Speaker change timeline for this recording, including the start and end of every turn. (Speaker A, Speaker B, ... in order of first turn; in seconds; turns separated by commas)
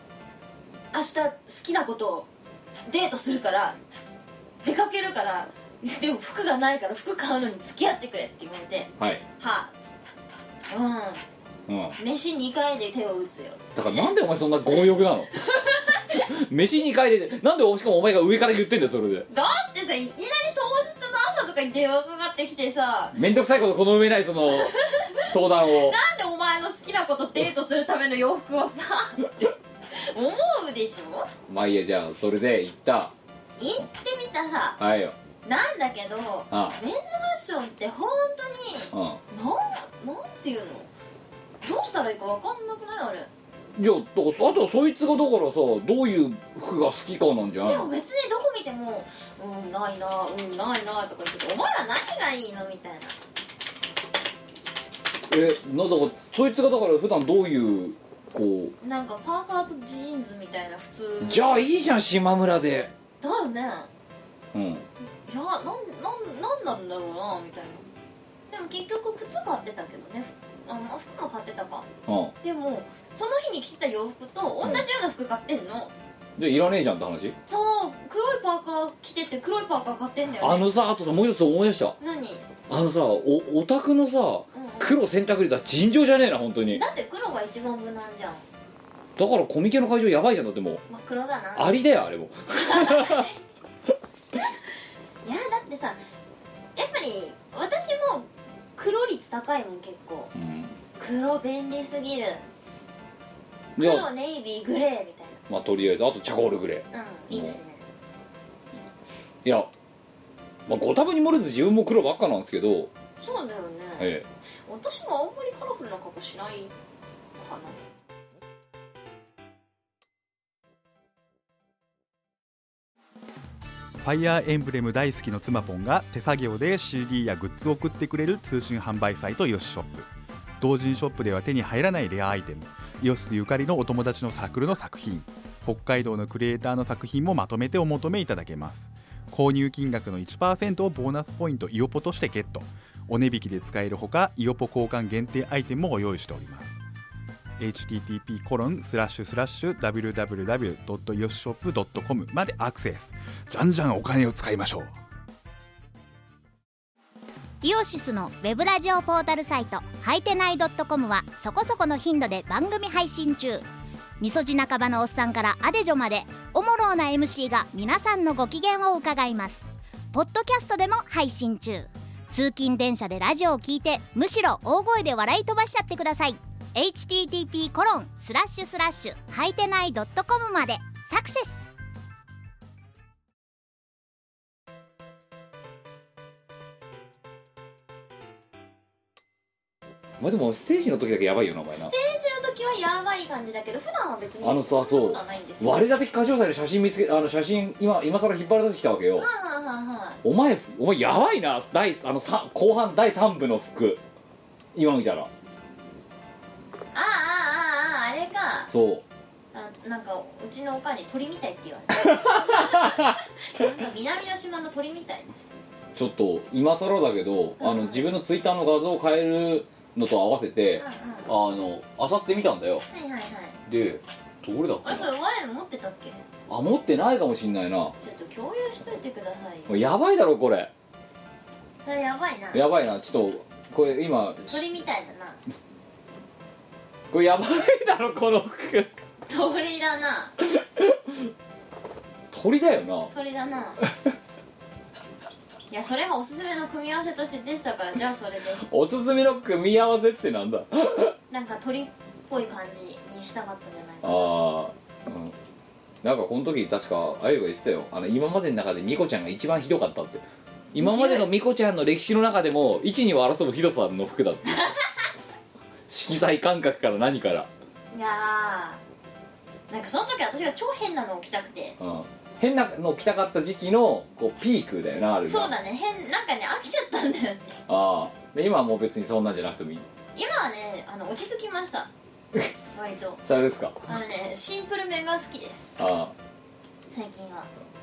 Speaker A: 0.9-2.3, Speaker A: 2.9-3.8, Speaker A: 4.6-9.9, Speaker A: 10.7-11.2, Speaker B: 11.7-11.9, Speaker A: 12.0-14.1, Speaker B: 13.7-15.3, Speaker A: 15.3-16.1, Speaker B: 16.1-19.3, Speaker A: 19.3-23.3, Speaker B: 23.1-24.7, Speaker A: 24.5-31.3, Speaker B: 25.2-26.0, Speaker B: 31.5-33.1, Speaker A: 33.6-34.8, Speaker B: 34.8-35.1, Speaker A: 35.4-40.9, Speaker B: 36.5-36.8, Speaker B: 38.9-39.2, Speaker A: 41.6-43.3, Speaker B: 43.8-47.9, Speaker A: 47.6-53.1, Speaker B: 55.3-58.7, Speaker A: 58.8-61.5, Speaker B: 61.2-62.9, Speaker A: 63.2-63.9, Speaker B: 64.5-64.9, Speaker A: 65.3-67.8, Speaker A: 68.5-71.9, Speaker B: 72.0-72.3, Speaker A: 72.4-75.9, Speaker B: 76.4-77.3, Speaker A: 77.5-80.7, Speaker B: 80.4-82.0, Speaker A: 82.0-82.5, Speaker B: 82.7-86.8, Speaker A: 84.5-85.0, Speaker A: 86.7-88.4, Speaker B: 89.2-90.8, Speaker A: 90.9-91.7, Speaker B: 91.5-93.3, Speaker A: 92.5-93.4, Speaker A: 95.2-96.0, Speaker A: 96.8-100.3, Speaker B: 100.3-100.8, Speaker A: 101.0-102.4, Speaker A: 103.8-105.4, Speaker B: 103.8-104.1, Speaker B: 105.5-107.6, Speaker A: 106.9-107.8, Speaker B: 109.4-109.7, Speaker B: 110.7-112.9, Speaker A: 113.2-114.1, Speaker B: 114.0-114.3, Speaker A: 114.7-116.7, Speaker A: 117.4-117.8, Speaker C: 124.0-130.1, Speaker C: 130.6-146.8, Speaker C: 147.6-154.9, Speaker D: 157.6-163.6, Speaker D: 164.2-181.6, Speaker B: 190.2-191.9, Speaker A: 191.7-195.8, Speaker B: 194.4-199.3, Speaker A: 199.2-200.2, Speaker B: 200.2-204.0, Speaker B: 204.7-205.3, Speaker A: 206.9-208.7, Speaker B: 208.7-209.0, Speaker A: 209.5-215.3, Speaker B: 211.9-213.2, Speaker B: 215.9-222.8, Speaker A: 217.6-218.1, Speaker A: 220.8-221.3, Speaker A: 222.9-223.6, Speaker B: 223.7-225.1, Speaker A: 224.8-226.2, Speaker B: 226.5-227.9, Speaker A: 228.0-229.7, Speaker B: 229.7-230.7, Speaker A: 231.8-232.6, Speaker B: 232.5-234.7, Speaker A: 234.5-235.4, Speaker B: 237.1-238.9, Speaker A: 239.3-240.4, Speaker B: 240.6-241.1, Speaker B: 242.3-243.1, Speaker A: 243.1-243.8, Speaker A: 245.7-248.6, Speaker B: 248.6-251.1, Speaker A: 251.3-254.4, Speaker B: 254.0-255.3, Speaker B: 256.0-264.7, Speaker A: 260.8-261.3, Speaker B: 265.9-267.5, Speaker A: 267.9-268.8, Speaker A: 269.7-271.8, Speaker B: 271.8-275.5, Speaker A: 275.2-277.6, Speaker B: 277.7-279.9, Speaker A: 280.1-281.9, Speaker A: 282.7-283.2, Speaker B: 283.2-283.8, Speaker A: 283.9-285.8, Speaker B: 285.8-286.1, Speaker A: 286.9-287.5